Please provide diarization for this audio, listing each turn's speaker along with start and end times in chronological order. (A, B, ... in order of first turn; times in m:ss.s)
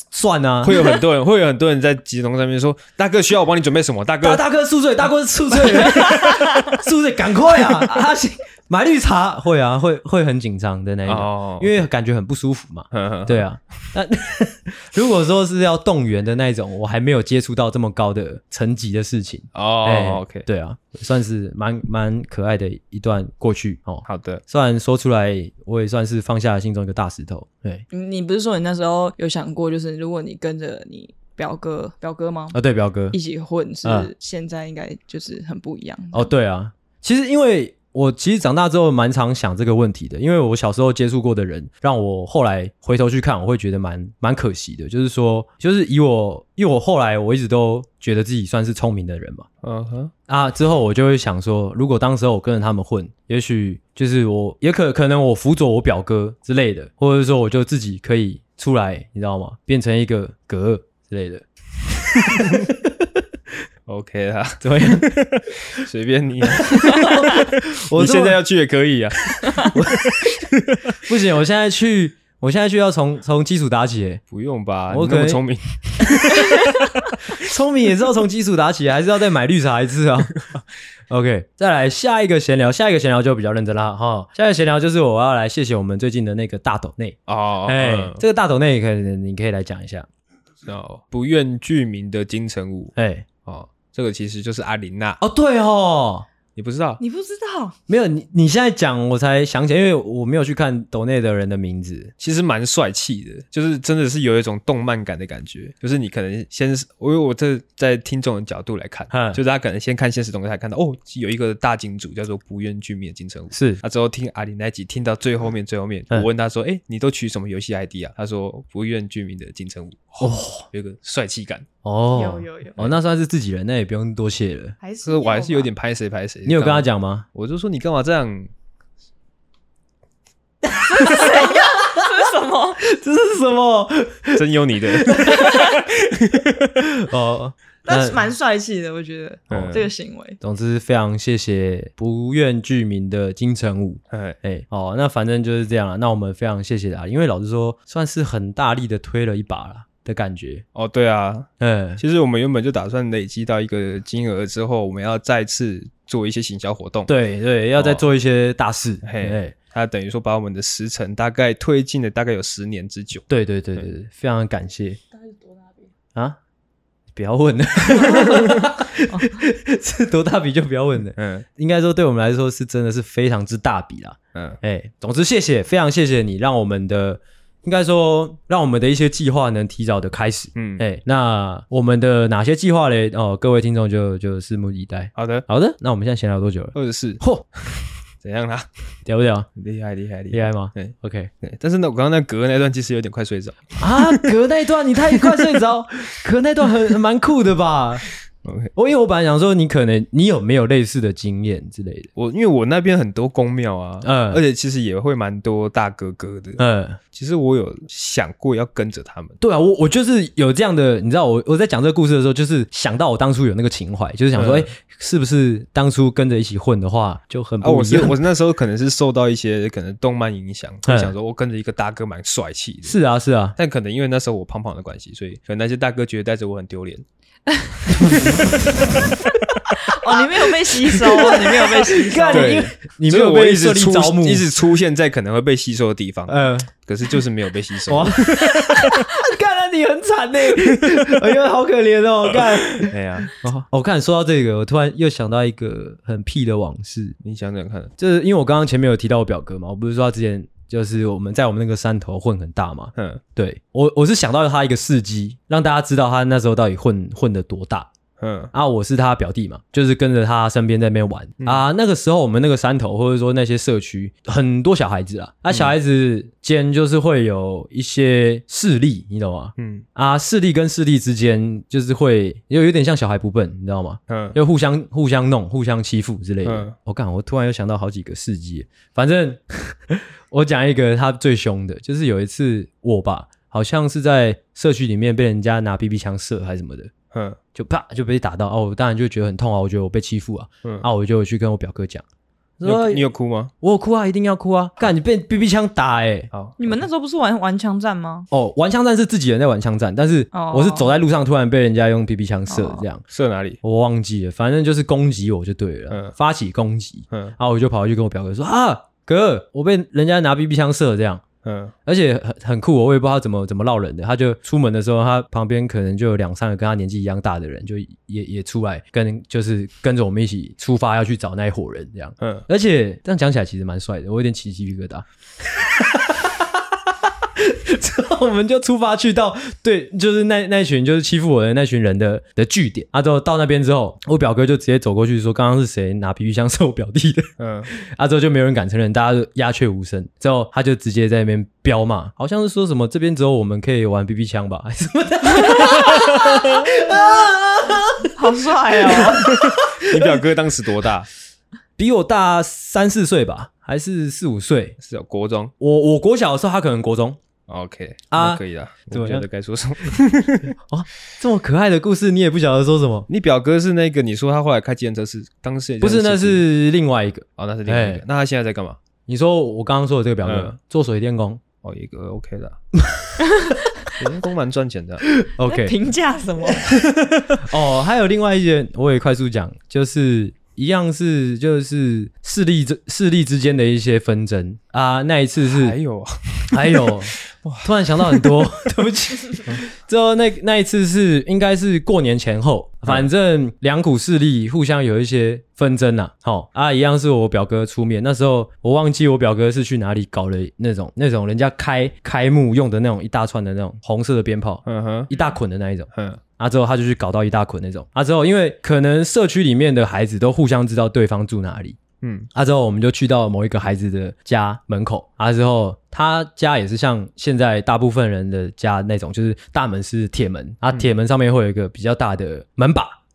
0:00.1-0:01.0 A
0:00.6-0:04.4 B
0:04.2-0:27.8 A
0:11.1-0:11.7 B
0:12.9-0:13.5 B
0:19.5-0:20.5 B
0:24.1-0:24.4 B
0:27.9-0:32.6 C
0:32.5-0:33.2 A
0:33.1-0:36.3 C
0:33.8-0:34.1 A
0:36.1-0:49.5 A
0:49.6-0:50.1 B
0:50.3-1:03.0 A
1:02.4-1:02.6 B
1:03.9-1:10.5 B
1:04.6-1:05.8 A
1:06.6-1:08.4 A
1:09.6-1:10.4 A
1:11.0-1:14.2 A
1:14.3-1:16.7 B
1:14.9-1:15.4 A
1:16.0-1:16.6 A
1:17.3-1:20.4 A
1:21.1-1:30.1 A
1:27.3-1:28.2 B
1:30.6-1:32.9 B
1:33.0-1:33.3 A
1:33.4-1:35.2 B
1:35.2-1:36.3 A
1:36.6-1:37.0 B
1:37.0-1:37.8 C
1:37.9-1:42.1 A
1:42.2-2:01.7 B
1:49.1-1:49.4 A
1:53.5-1:53.8 A
2:00.2-2:00.7 A
2:01.8-2:04.8 A
2:02.1-2:02.9 C
2:04.8-2:05.7 C
2:05.0-2:08.5 B
2:06.4-2:07.3 A
2:10.6-2:12.1 A
2:10.9-2:12.8 C
2:12.8-2:15.8 A
2:14.3-2:16.5 B
2:15.4-2:15.8 C
2:16.8-2:18.2 A
2:17.8-2:20.4 C
2:19.5-2:19.9 B
2:20.4-2:30.6 A
2:24.1-2:24.4 B
2:30.8-2:37.1 B
2:31.6-2:32.0 A
2:37.1-2:39.5 A
2:37.8-2:38.1 B
2:39.0-2:43.3 B
2:43.3-2:45.0 A
2:45.1-2:45.8 C
2:47.1-3:07.4 A
2:49.1-2:49.4 C
2:51.2-2:51.5 B
3:00.6-3:00.8 B
3:05.2-3:05.4 B
3:06.7-3:07.2 B
3:08.2-3:08.7 B
3:09.0-3:09.5 A
3:09.6-3:14.3 B
3:10.3-3:11.3 A
3:13.8-3:18.1 A
3:15.2-3:15.4 B
3:18.4-3:18.7 B
3:18.8-3:22.1 A
3:22.2-3:26.6 B
3:24.0-3:24.4 A
3:26.6-3:27.0 A
3:27.1-3:29.4 B
3:29.4-3:38.2 A
3:34.3-3:34.7 B
3:37.6-3:43.0 B
3:40.9-3:41.1 A
3:42.8-3:43.6 A
3:43.6-3:47.0 B
3:47.9-3:49.1 B
3:48.5-3:49.0 A
3:49.5-3:50.0 A
3:49.9-3:52.7 C
3:51.2-3:54.5 A
3:52.3-3:59.0 B
3:56.3-3:56.7 A
3:57.9-4:07.2 A
4:00.7-4:01.2 B
4:02.3-4:03.3 B
4:07.2-4:07.9 B
4:08.0-4:17.9 A
4:13.0-4:13.2 B
4:18.2-4:18.5 B
4:18.5-4:46.9 A
4:29.6-4:29.8 B
4:34.1-4:34.4 B
4:36.4-4:36.8 B
4:47.1-4:47.4 B
4:47.5-4:52.0 A
4:52.6-4:53.0 A
4:52.6-4:53.5 B
4:53.6-4:56.3 A
4:56.3-4:56.8 B
4:56.6-4:58.3 C
4:58.3-5:03.0 A
5:00.3-5:00.9 C
5:02.5-5:02.8 C
5:03.1-5:03.6 B
5:03.6-5:11.2 A
5:07.1-5:07.4 B
5:11.4-5:11.7 B
5:11.9-5:50.2 A
5:22.2-5:22.5 B
5:37.4-5:37.7 B
5:48.1-5:49.3 C
5:49.3-5:51.1 B
5:51.8-5:54.8 A
5:54.8-5:55.5 B
5:55.6-5:57.2 A
5:57.5-6:00.5 B
5:58.1-5:59.3 A
6:00.7-6:03.1 A
6:03.1-6:06.4 B
6:05.8-6:08.0 A
6:07.4-6:08.8 B
6:09.1-6:11.4 A
6:10.2-6:10.6 B
6:11.6-6:12.6 B
6:12.8-6:13.1 A
6:13.3-6:13.6 C
6:14.0-6:15.0 B
6:15.1-6:15.8 A
6:15.4-6:16.8 C
6:16.7-6:25.8 A
6:25.4-6:28.5 B
6:26.5-6:51.8 A
6:44.6-6:45.1 B
6:45.9-6:46.2 B
6:52.0-6:52.3 B
6:52.3-7:03.0 A